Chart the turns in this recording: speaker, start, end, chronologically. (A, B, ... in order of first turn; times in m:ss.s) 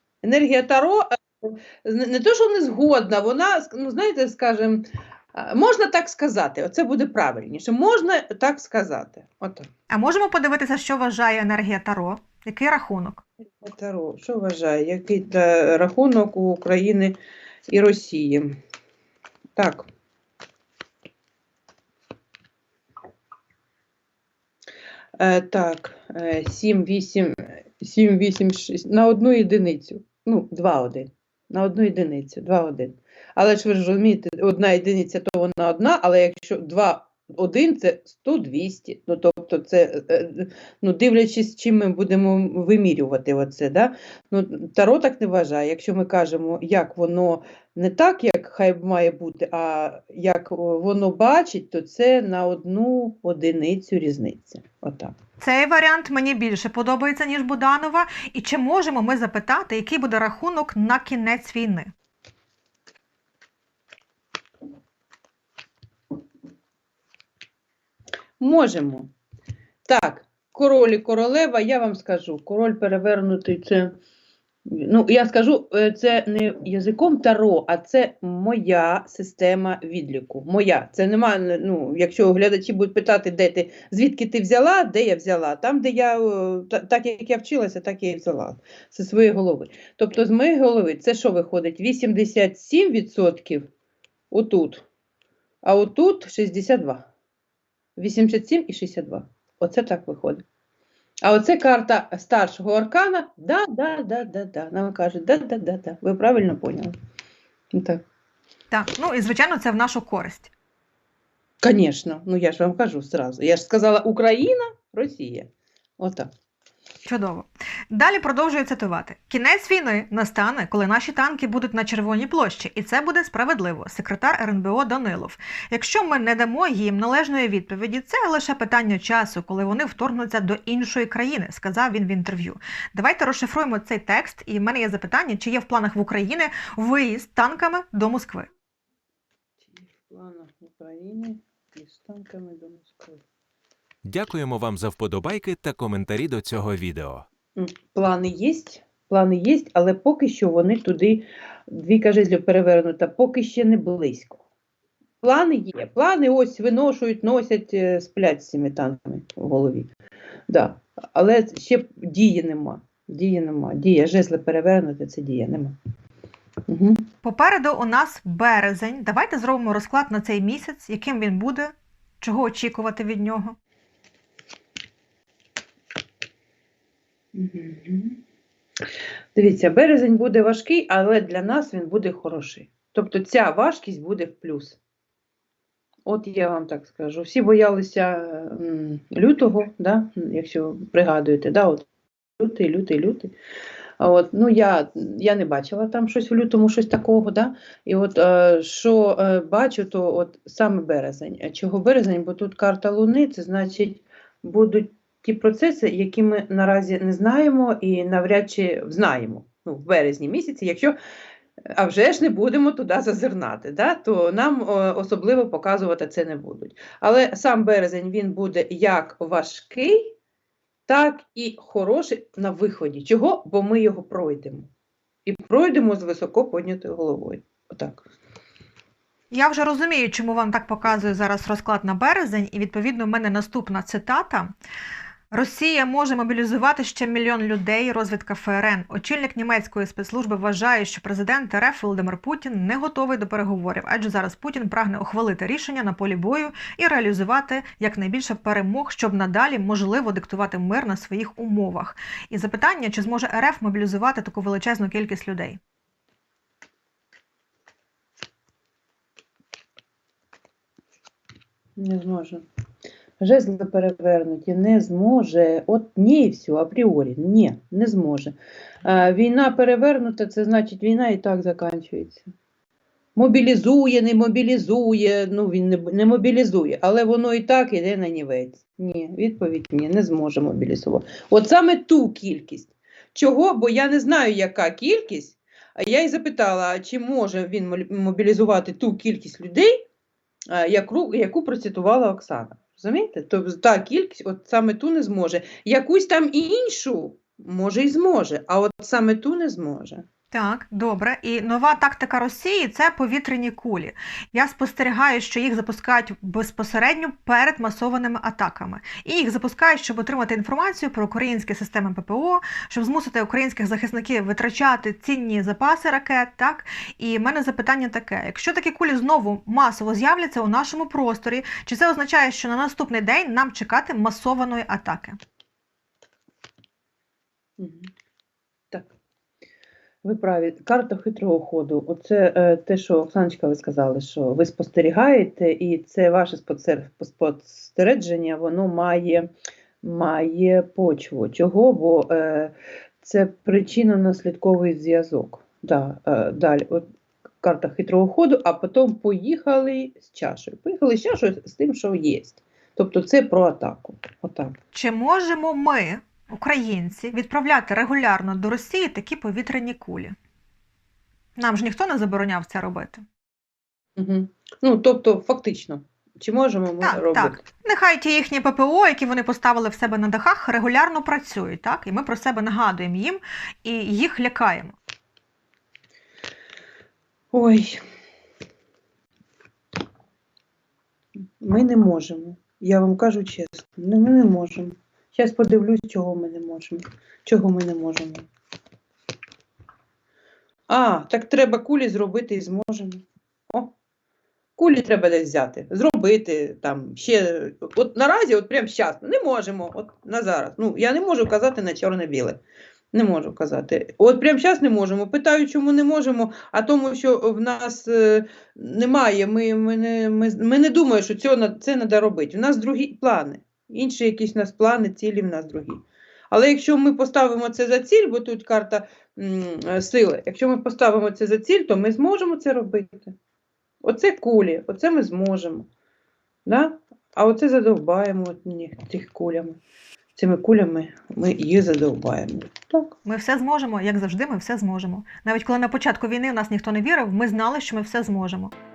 0:00.2-0:09.7 A
0:09.9-0:13.2 B
0:13.6-0:17.2 A
0:17.7-0:18.6 A
0:19.6-0:19.9 A
0:25.2-0:55.1 A
0:55.4-1:01.9 B
1:08.4-1:09.1 A
1:09.9-1:13.9 A
1:14.7-1:33.7 A
1:34.3-1:34.9 A
1:35.6-1:37.1 A
1:38.0-1:40.4 A
1:41.2-1:46.9 A
1:47.7-1:48.0 A
1:48.7-1:50.5 B
1:51.6-1:56.3 A
1:57.1-2:18.5 B
2:19.6-2:23.2 A
2:24.1-2:27.3 C
2:27.6-2:34.4 A
2:35.2-2:39.9 A
2:40.5-2:45.8 A
2:46.7-2:47.1 A
2:47.2-2:53.6 B
2:57.3-2:58.2 A
2:59.4-3:04.8 A
3:06.1-3:11.8 A
3:12.4-3:13.3 A
3:14.0-3:31.0 A
3:31.8-3:40.1 A
3:40.9-3:44.7 A
3:45.3-3:48.0 A
3:49.3-3:54.5 B
3:55.3-4:15.6 B
4:21.8-4:22.4 A
4:23.2-4:32.2 A
4:33.2-4:49.8 A
4:50.5-5:00.0 A
5:00.3-5:25.2 B
5:27.6-5:27.9 A
5:30.0-5:39.3 A
5:39.8-5:46.8 A
5:47.4-5:54.6 A
5:54.7-6:00.2 B
6:01.4-6:03.0 B
6:04.0-6:07.4 A
6:06.8-6:14.8 B
6:17.3-6:17.8 A
6:21.4-6:28.3 A
6:30.7-6:33.7 A
6:34.6-6:42.4 A
6:42.9-7:03.2 A
7:03.8-7:05.7 A
7:06.5-7:09.6 A
7:10.2-7:13.0 A
7:13.0-7:18.5 B